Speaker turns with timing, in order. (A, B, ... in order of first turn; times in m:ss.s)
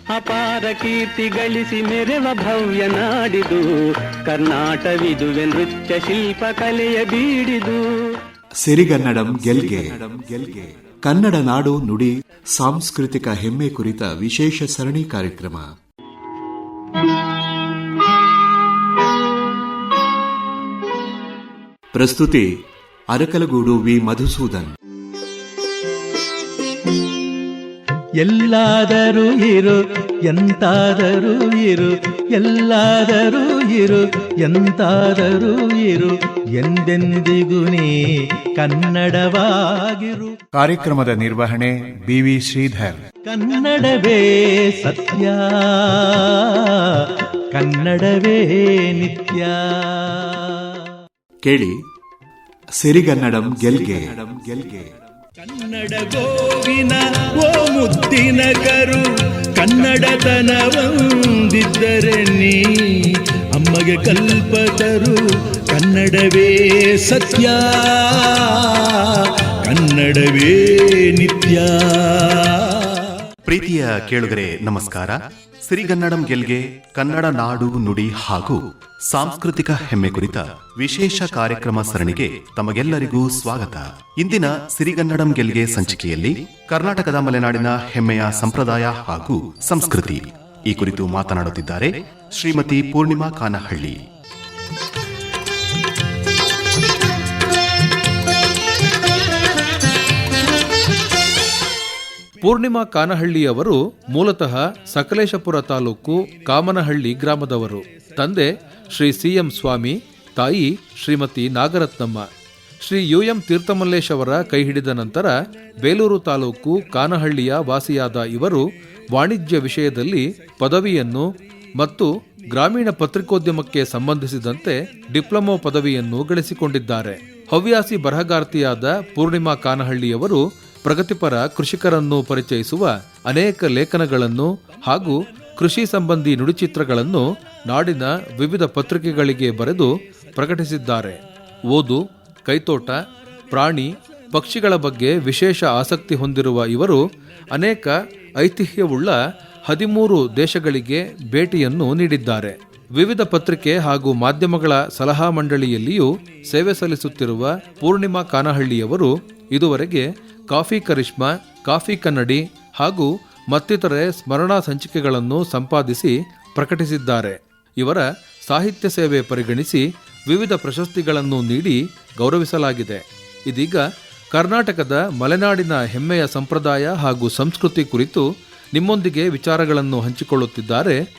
0:00.2-0:03.6 A
0:04.3-0:07.7 A
0:08.6-0:15.6 B
0:21.9-0:22.4 B
0:23.1-0:24.7 B
0:28.2-0:37.9 C
0:38.6-0:40.3 C
0:40.5-0:43.0 D
0:43.3-0:46.7 C
0:47.5-0:50.4 C
0:51.4-0:51.7 B
0:52.8-0:54.9 B
0:55.4-1:03.0 C
1:03.5-1:05.2 C
1:05.7-1:09.0 C
1:09.6-1:12.4 C
1:13.4-1:34.0 E
1:42.4-1:52.2 F
1:52.8-1:58.6 F
1:59.1-2:01.2 F
2:01.8-2:21.2 F
2:21.7-2:23.0 F
2:23.5-2:27.0 F
2:27.5-2:29.1 F
2:29.7-2:53.8 F
2:54.3-2:58.2 F
2:58.7-3:01.0 F